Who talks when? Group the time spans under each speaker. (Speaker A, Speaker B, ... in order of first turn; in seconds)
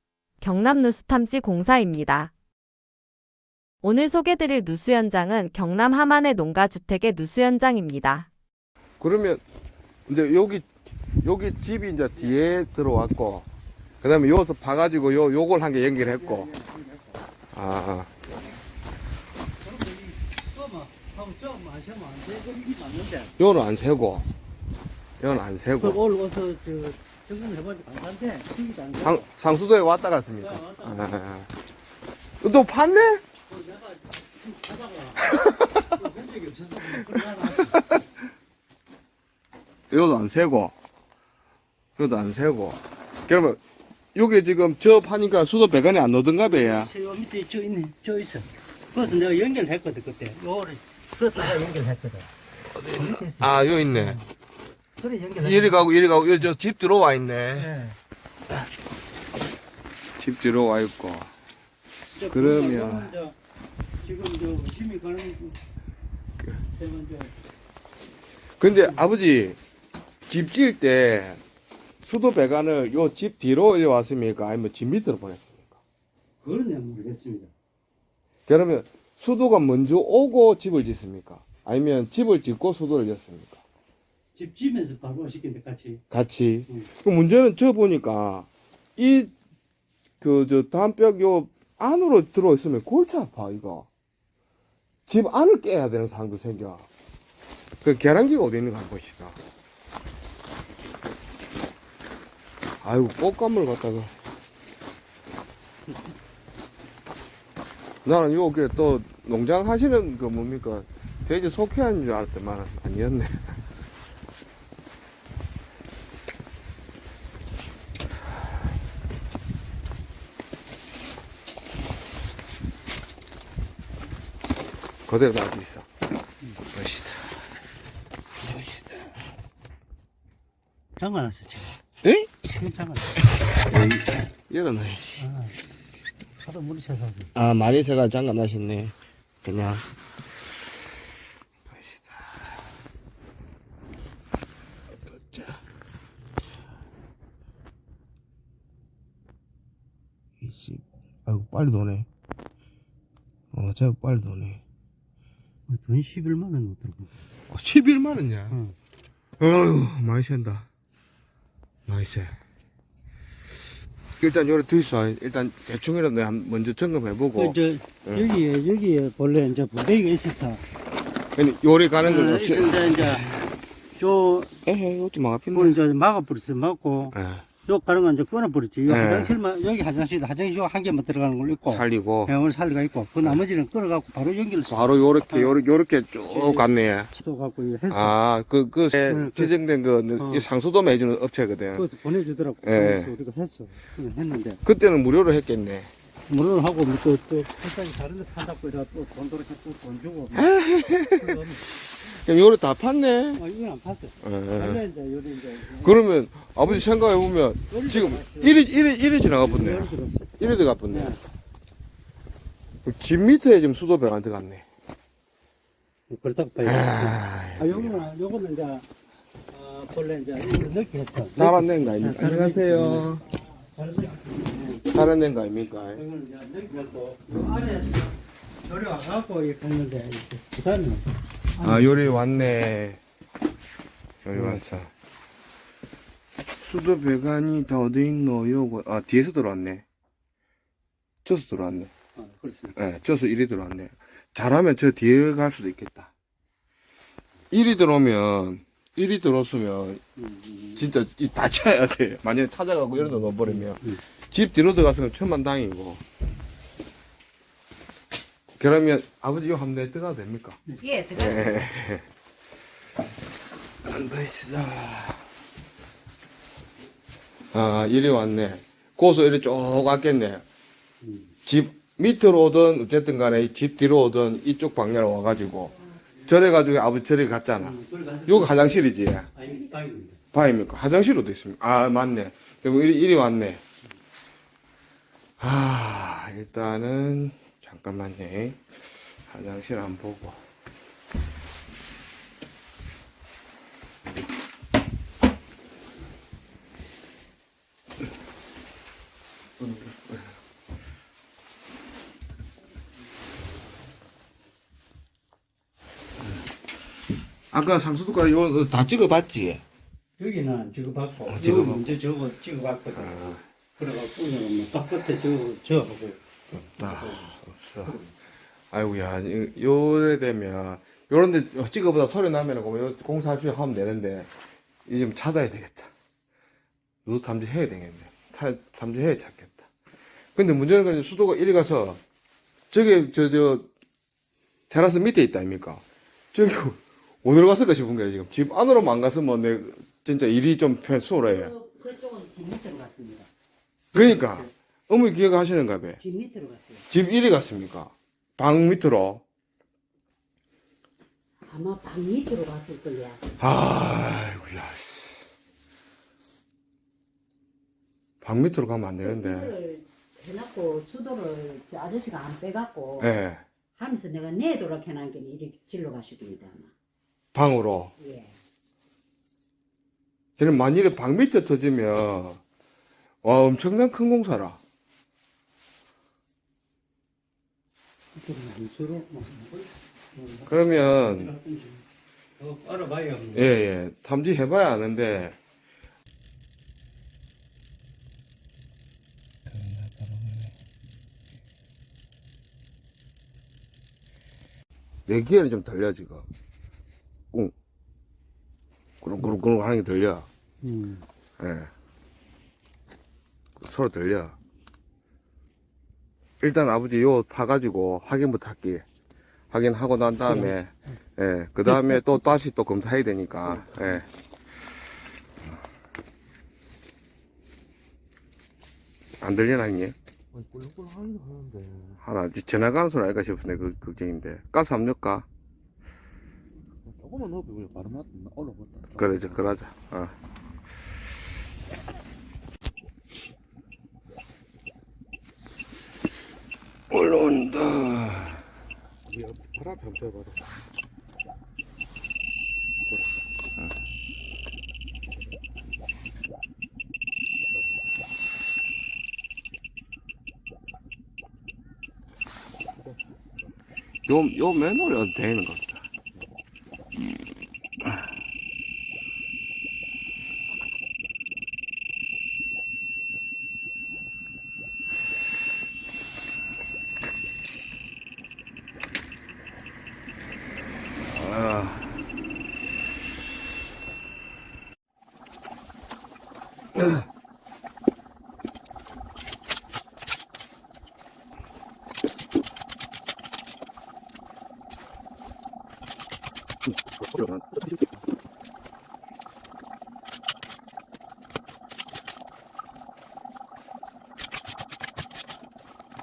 Speaker A: 0.4-2.3, 3.8-8.3, 260.8-261.2
Speaker B: 9.0-9.4, 10.1-10.7, 11.2-13.4, 14.0-16.5, 17.5-18.1, 23.4-24.3, 25.2-26.0, 29.0-31.5, 32.4-33.2, 35.3-35.9, 37.7-38.0, 39.9-40.7, 42.0-43.6, 44.1-46.9, 52.9-54.2, 55.4-57.7, 60.2-61.3, 62.3-63.1, 68.6-69.6, 70.3-71.4, 72.0-75.8, 78.5-83.6, 86.1-89.3, 90.2-93.9, 95.1-96.9, 97.8-99.4, 102.8-104.1, 108.0-113.5, 125.1-125.9, 126.7-127.4, 128.5-128.9, 132.0-132.3, 133.7-135.3, 137.3-139.9, 141.7-142.3, 145.3-145.6, 150.4-152.1, 153.5-154.6, 157.5-158.6, 159.4-160.7, 161.9-162.3, 164.2-168.3, 171.3-173.5, 174.6-175.8, 177.1-177.4, 178.9-179.3, 181.6-182.3, 184.7-187.1, 187.9-191.8, 192.6-193.1, 194.6-195.9, 200.3-201.4, 202.0-203.4, 204.2-204.8, 205.7-211.1, 212.8-214.7, 216.6-218.1, 221.3-223.2, 224.9-226.0, 231.6-233.0, 234.2-234.9, 236.6-239.8, 241.2-241.9, 242.8-246.1, 247.5-250.0, 250.8-256.0, 258.6-260.6, 261.1-262.1, 263.8-265.2, 267.5-270.4, 271.4-279.3, 280.3-283.6, 285.4-288.7, 289.3-290.4, 299.6-300.3, 307.5-309.6, 311.3-311.9, 312.9-313.4, 316.8-318.0, 318.7-324.3, 324.9-325.9, 327.0-329.7, 330.3-332.0, 332.7-333.7, 334.7-341.5, 343.9-346.0, 346.9-349.2, 353.4-355.2, 358.2-359.6, 363.0-363.4, 367.3-367.9, 370.4-372.4, 373.2-374.6, 380.4-381.3, 383.3-385.4, 389.5-390.5, 395.1-396.2, 399.0-400.3, 401.4-401.7, 403.6-404.4, 406.4-408.8, 409.5-414.1, 419.2-419.9, 422.0-425.2, 428.9-430.1, 436.9-438.4, 454.1-455.8, 471.1-471.9, 487.1-487.6
Speaker C: 16.1-17.2, 19.6-23.3, 25.8-29.3, 30.4-31.1, 33.5-37.9, 46.4-54.2, 55.0-55.9, 57.5-58.0, 62.1-63.3, 64.0-65.6, 66.8-67.3, 76.4-77.5, 84.3-86.0, 131.0-131.8, 132.5-133.2, 135.2-135.5, 136.4-137.3, 155.7-157.1, 158.5-158.7, 167.3-170.6, 172.0-173.4, 173.9-174.6, 175.5-185.6, 186.3-188.2, 189.1-189.6, 190.2-190.5, 191.7-194.6, 196.3-200.5, 201.0-201.7, 203.3-206.0, 207.7-208.7, 209.2-211.2, 216.1-218.8, 219.5-225.1, 225.9-231.0, 231.6-232.2, 234.3-234.8, 242.2-242.8, 250.2-250.8, 253.0-254.0, 271.0-271.3, 277.6-278.6, 279.3-280.2, 310.2-317.3, 343.9-344.5, 378.1-381.8, 382.4-383.5, 400.6-401.0, 410.2-410.5
Speaker D: 346.0-346.6, 351.5-352.7, 359.3-363.1, 363.8-366.5
Speaker E: 352.9-353.2, 365.9-366.6, 420.3-422.0, 426.9-429.4, 439.1-440.4